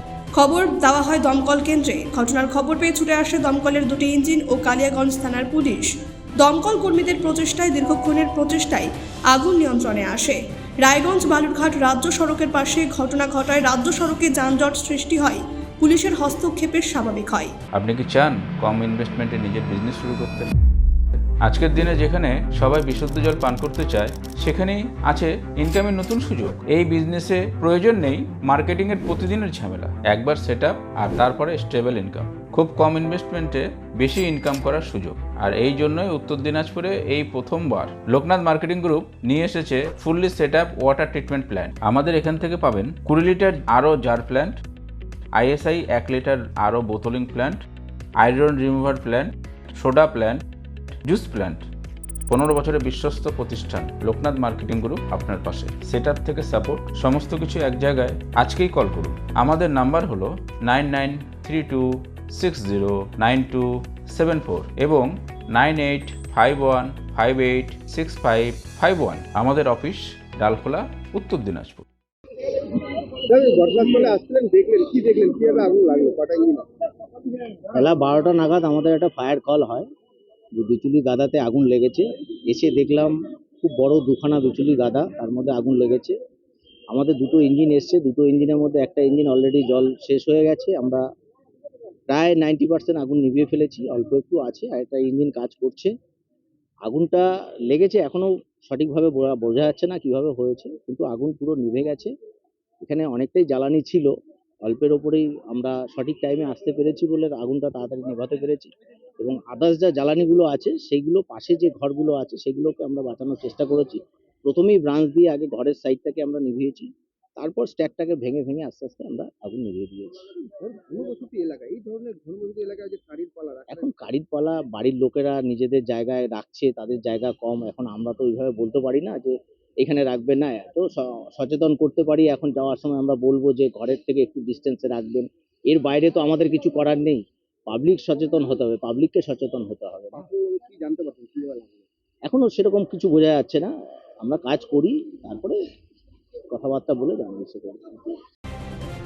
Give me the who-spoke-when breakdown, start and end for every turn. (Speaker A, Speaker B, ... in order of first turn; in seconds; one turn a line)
Speaker A: 0.3-5.9
Speaker A: 6.4-17.5
Speaker B: 17.7-20.5
Speaker B: 21.4-44.5
Speaker B: 45.4-47.6
Speaker B: 48.2-50.4
Speaker B: 51.0-51.6
Speaker B: 52.3-71.8
Speaker C: 72.5-76.7
Speaker D: 77.7-79.8
Speaker D: 80.5-86.1
Speaker D: 86.9-91.0
Speaker D: 92.1-95.9
Speaker D: 96.8-102.1
Speaker D: 102.8-104.1
Speaker D: 104.6-120.2
Speaker C: 120.6-123.9
Speaker D: 123.7-140.2
Speaker C: 140.1-141.9
Speaker D: 142.2-143.7
Speaker D: 144.2-145.6
Speaker D: 146.5-148.1